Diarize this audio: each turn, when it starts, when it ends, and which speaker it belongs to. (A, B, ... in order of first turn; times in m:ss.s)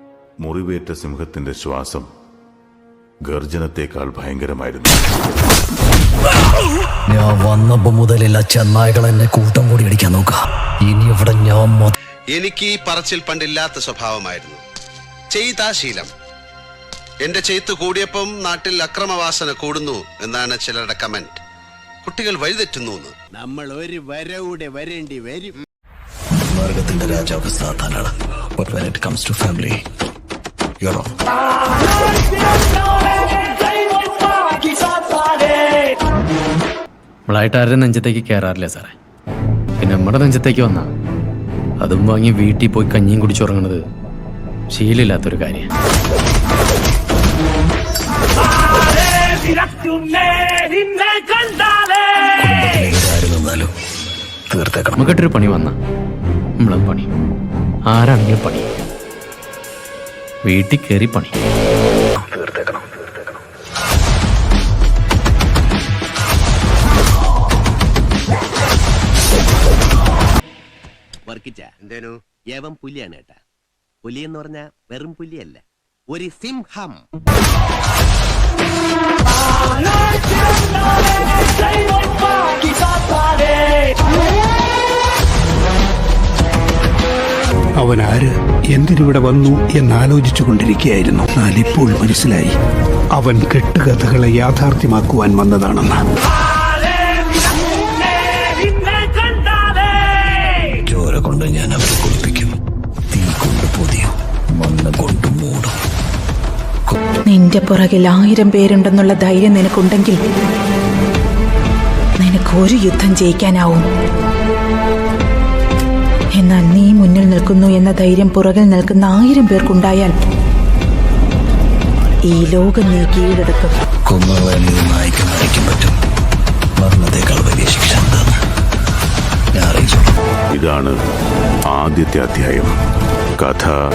0:00.4-0:02.1 A
0:03.3-0:05.0 A
0:07.1-0:11.9 B
0:12.3-0:14.6 C
0:15.3-0:16.1 C
0:17.2-0:21.4 C
0:22.0-0:23.1 C
0:23.3-0:25.6 D
0:26.4-0:29.8 B
0:30.8-0:31.1 B
0:37.3-0:39.0 E
0:39.8-0:40.9 E
0:41.8-0:43.8 E
0:44.7-0:45.7 E
0:50.4-0:51.0 E
0:52.4-0:53.7 B
0:54.5-0:55.2 B
0:55.0-0:55.8 E
0:56.6-0:57.1 E
0:57.9-0:58.7 E
1:00.4-1:01.4 E
1:02.2-1:03.2 B
1:11.3-1:13.3 D
1:14.1-1:15.5 D
1:16.1-1:17.0 D
1:27.8-1:32.5 F
1:33.2-1:36.0 F
1:40.8-1:42.5 B
1:43.1-1:45.7 B
1:47.2-1:50.2 G
1:52.2-1:53.8 G
1:56.4-2:00.2 G
2:02.2-2:03.7 G
2:04.1-2:06.0 B
2:06.8-2:08.4 B
2:09.5-2:10.1 B
2:10.5-2:11.0 A
2:11.7-2:12.7 A
2:13.4-2:13.8 A